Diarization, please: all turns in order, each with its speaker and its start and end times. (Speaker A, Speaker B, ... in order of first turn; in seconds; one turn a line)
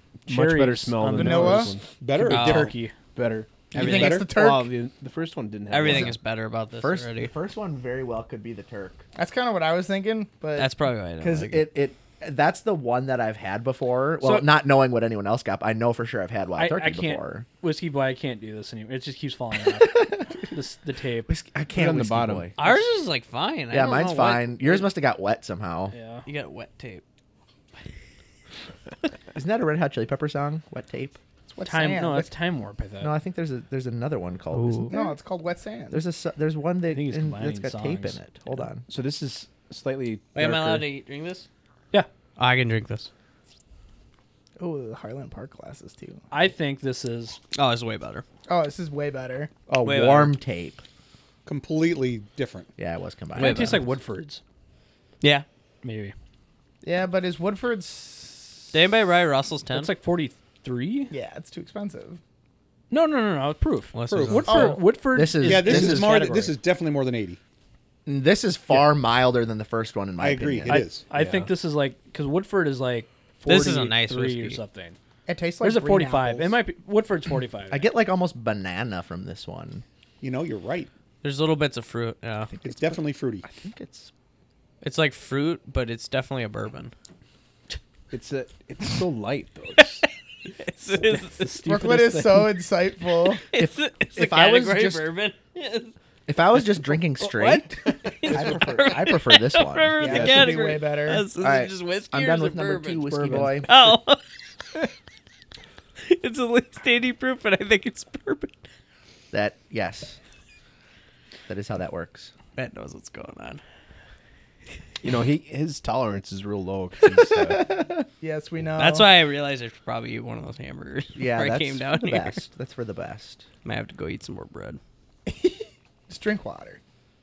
Speaker A: 0.3-1.9
Speaker B: 0.3-2.9
Speaker C: 1.1-1.7
Speaker D: 2.0-2.8
Speaker E: 2.2-2.7
Speaker A: 3.1-6.2
Speaker D: 3.7-4.3
Speaker C: 3.7-4.7
Speaker E: 3.7-4.2
Speaker E: 5.7-7.3
Speaker F: 6.8-9.1
Speaker C: 9.2-10.7
Speaker E: 10.6-11.7
Speaker F: 11.2-17.5
Speaker B: 14.2-14.5
Speaker B: 16.6-21.3
Speaker F: 19.9-20.4
Speaker F: 21.3-22.5
Speaker A: 21.7-22.5
Speaker E: 22.6-24.9
Speaker F: 23.7-25.9
Speaker B: 25.9-26.3
Speaker E: 26.3-27.0
Speaker F: 29.3-31.2
Speaker C: 31.5-32.3
Speaker B: 31.6-33.1
Speaker F: 33.0-35.0
Speaker E: 34.5-35.0
Speaker C: 34.9-36.0
Speaker F: 35.9-38.9
Speaker B: 36.9-38.2
Speaker A: 38.9-40.9
Speaker E: 40.4-41.5
Speaker E: 42.4-43.1
Speaker C: 44.6-46.2
Speaker B: 46.3-47.4
Speaker E: 47.5-48.2
Speaker C: 48.5-49.5
Speaker F: 49.7-50.8
Speaker E: 49.8-50.3
Speaker D: 51.5-52.7
Speaker F: 52.8-53.8
Speaker E: 53.4-53.9
Speaker B: 53.4-54.4
Speaker E: 55.2-55.5
Speaker B: 55.8-56.1
Speaker C: 56.8-58.7
Speaker E: 58.7-59.9
Speaker B: 59.7-61.1
Speaker C: 61.1-62.2
Speaker B: 62.9-66.5
Speaker E: 63.9-64.8
Speaker D: 64.1-64.8
Speaker C: 64.5-64.8
Speaker F: 65.1-66.1
Speaker D: 65.4-67.4
Speaker F: 68.1-70.8
Speaker D: 70.2-71.1
Speaker B: 70.7-75.0
Speaker A: 71.1-71.5
Speaker E: 73.5-74.6
Speaker C: 75.3-76.6
Speaker B: 75.6-77.8
Speaker F: 77.7-79.8
Speaker D: 80.2-80.9
Speaker E: 81.2-82.5
Speaker F: 82.5-82.9
Speaker D: 82.6-83.5
Speaker F: 83.4-84.1
Speaker E: 84.8-86.9
Speaker A: 88.1-90.0
Speaker E: 89.8-91.5
Speaker B: 91.0-92.6
Speaker C: 91.6-93.4
Speaker E: 93.5-95.9
Speaker F: 93.5-95.1
Speaker F: 96.3-100.2
Speaker E: 97.2-104.2
Speaker C: 98.3-98.6
Speaker C: 100.0-101.2
Speaker F: 101.3-103.8
Speaker E: 106.0-108.6
Speaker F: 109.3-110.2
Speaker F: 111.5-112.3
Speaker E: 112.6-113.6
Speaker A: 115.0-117.8
Speaker C: 118.2-119.1
Speaker E: 118.8-122.4
Speaker F: 121.2-123.5
Speaker E: 123.7-124.8
Speaker C: 125.3-126.8